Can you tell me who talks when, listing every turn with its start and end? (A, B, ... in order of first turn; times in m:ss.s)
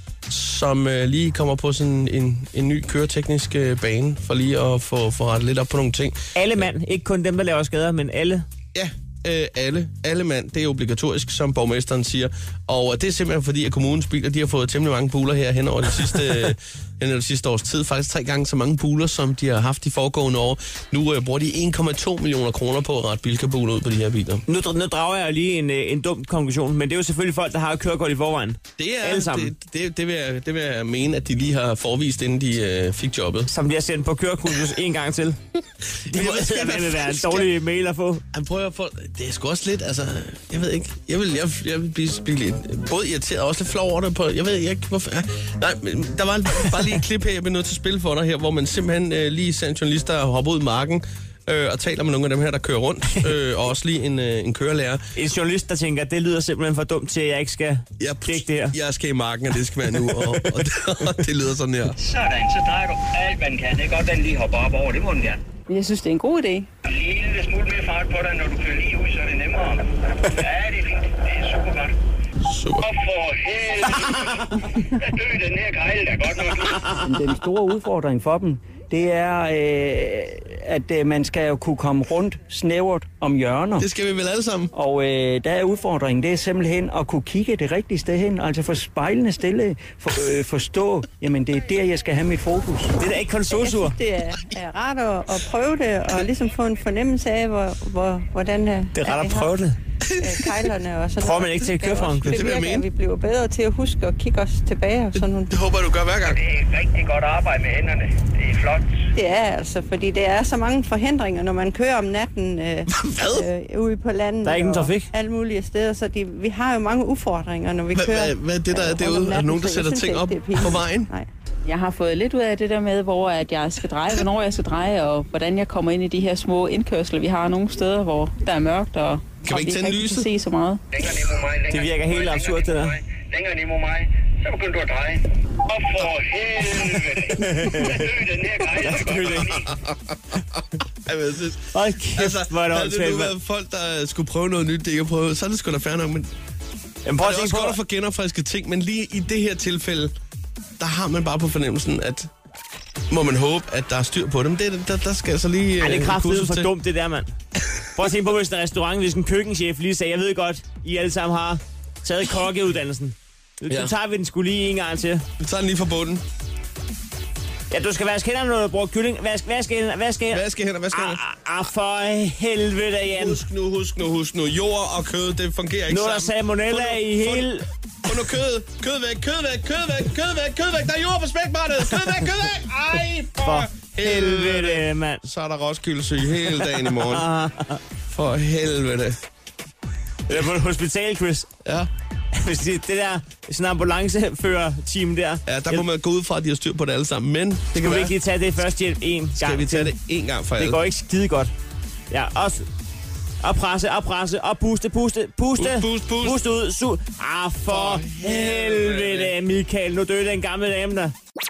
0:00.3-0:06.2 A
0:06.3-0:08.4 B
0:08.7-0:24.4 A
0:24.5-0:29.5 B
0:28.8-0:33.5 A
0:33.5-0:35.4 B
0:36.1-0:37.5 A
0:36.1-0:38.2 B
0:38.3-0:55.0 A
0:55.1-0:58.7 B
0:58.0-1:02.0 A
0:59.9-1:00.6 B
1:02.2-1:05.3 C
1:05.7-1:06.7 D
1:06.8-1:11.9 C
1:12.4-1:12.9 A
1:12.8-1:16.9 C
1:17.0-1:23.8 E
1:23.8-1:24.7 A
1:24.7-1:32.9 E
1:33.0-1:34.0 B
1:33.5-1:39.5 F
1:38.9-1:39.8 B
1:40.1-1:40.4 A
1:40.2-1:45.6 F
1:41.2-1:42.4 B
1:42.2-1:42.8 A
1:45.2-1:46.4 A
1:46.3-1:48.9 C
1:49.2-2:01.3 F
1:52.9-1:53.5 A
1:54.4-1:55.1 B
1:57.9-2:01.1 A
2:01.6-2:10.8 D
2:09.4-2:10.3 A
2:10.9-2:19.6 C
2:11.7-2:12.9 B
2:17.3-2:18.1 B
2:18.6-2:19.7 B
2:19.4-2:26.3 A
2:21.7-2:23.3 B
2:27.0-2:27.8 B
2:27.2-2:30.1 A
2:30.8-2:32.3 A
2:33.1-2:36.7 A
2:35.8-2:37.3 B
2:37.9-2:45.2 B
2:43.7-2:43.9 A
2:45.4-2:46.2 A
2:47.7-2:53.4 B
2:50.3-2:51.2 A
2:53.1-3:07.2 A
2:55.9-2:57.6 B
3:03.4-3:05.2 B
3:06.4-3:07.8 B
3:08.1-3:09.2 A
3:10.3-3:11.5 B
3:11.6-3:11.9 A
3:12.3-3:15.8 B
3:15.4-3:18.1 A
3:17.7-3:19.9 B
3:19.4-3:20.8 A
3:20.6-3:21.5 B
3:22.1-3:22.6 B
3:23.4-3:31.1 B
3:25.6-3:26.4 A
3:27.7-3:29.3 A